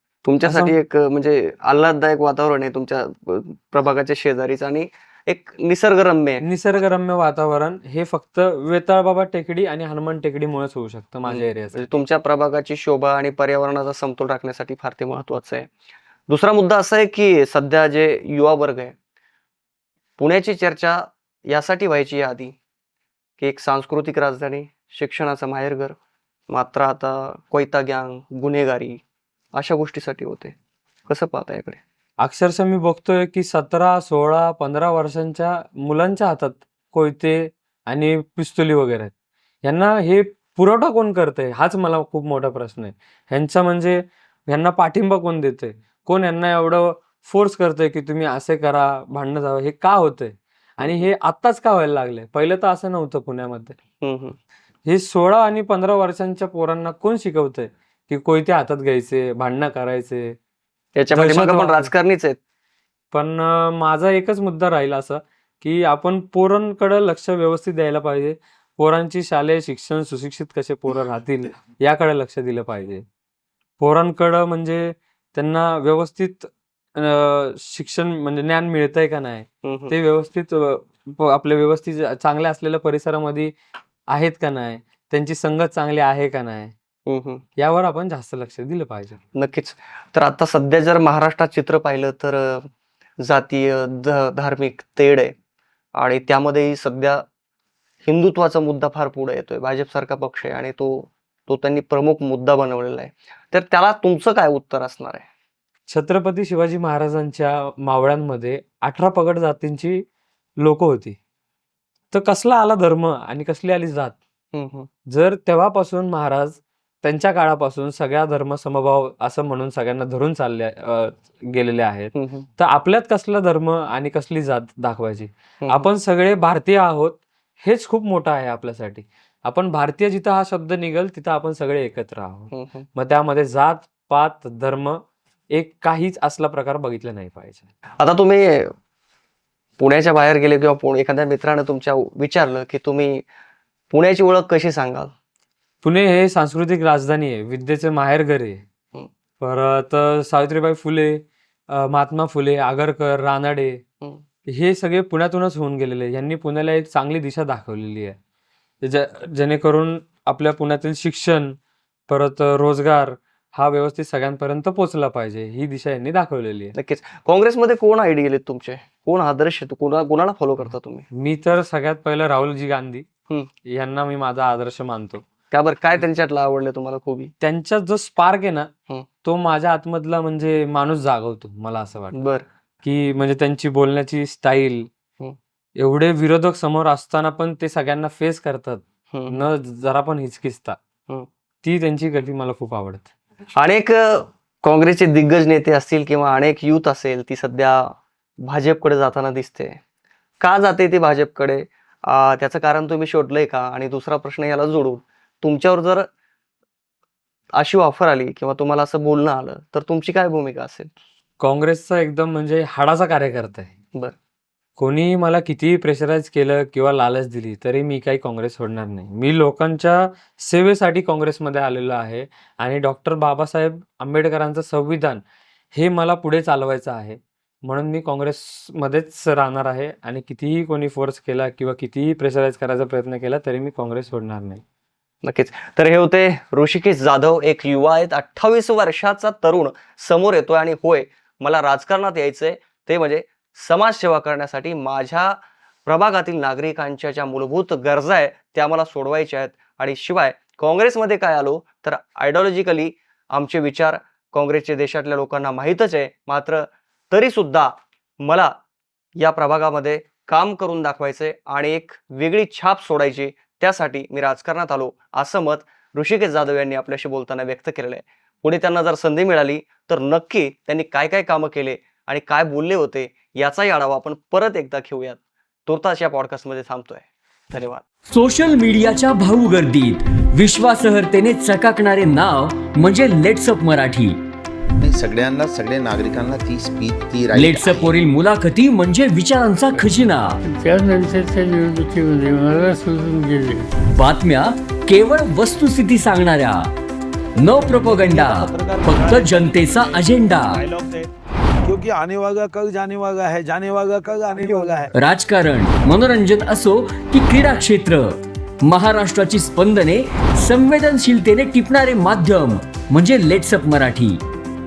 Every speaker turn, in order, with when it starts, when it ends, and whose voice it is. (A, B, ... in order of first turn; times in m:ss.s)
0:00.2-0:06.4 A
0:00.4-0:00.8 B
0:06.4-0:12.0 B
0:11.3-0:15.7 A
0:16.3-0:19.0 A
0:20.2-0:22.6 A
0:23.4-0:26.0 A
0:26.5-0:29.0 A
0:29.5-0:31.8 A
0:32.2-0:39.1 B
0:39.6-0:53.8 B
0:54.0-0:54.4 A
0:54.9-1:00.4 B
1:01.0-1:02.4 A
1:01.1-1:01.9 B
1:03.1-1:13.0 B
1:13.8-1:23.5 B
1:19.6-1:20.0 A
1:24.1-1:26.7 B
1:27.1-1:27.4 A
1:27.6-1:29.2 B
1:29.4-1:35.4 A
1:36.0-1:37.2 A
1:38.0-1:45.3 A
1:45.9-1:50.0 B
1:50.6-1:51.2 B
1:52.1-1:54.2 B
1:54.5-1:54.9 A
1:55.1-2:17.7 B
2:02.2-2:02.5 A
2:05.6-2:05.9 A
2:12.5-2:12.8 A
2:18.0-2:18.7 A
2:19.8-2:23.3 A
2:23.9-2:25.1 A
2:25.8-2:28.6 B
2:29.4-2:33.8 B
2:34.5-2:38.2 B
2:38.8-2:41.6 B
2:42.1-2:46.8 B
2:46.8-2:51.1 A
2:51.1-2:53.1 B
2:53.7-2:55.2 B
2:55.5-2:57.3 A
2:57.4-2:58.7 B
2:59.2-3:02.2 B
3:02.1-3:02.4 A
3:02.8-3:04.9 B
3:05.8-3:10.8 B
3:09.1-3:09.4 A
3:11.6-3:13.1 B
3:13.5-3:19.8 A
3:20.4-3:26.1 A
3:27.6-3:30.9 A
3:31.4-3:33.7 B
3:34.8-3:45.2 B
3:45.7-3:54.6 B
3:55.2-4:18.6 A
4:19.2-4:37.8 A
4:38.1-4:44.2 C
4:44.8-4:47.9 D
4:47.3-4:50.4 C
4:50.4-4:53.7 E
4:53.9-4:56.7 C
4:57.4-5:00.6 C
4:57.5-5:01.1 F
5:01.6-5:04.9 F
5:04.9-5:14.2 C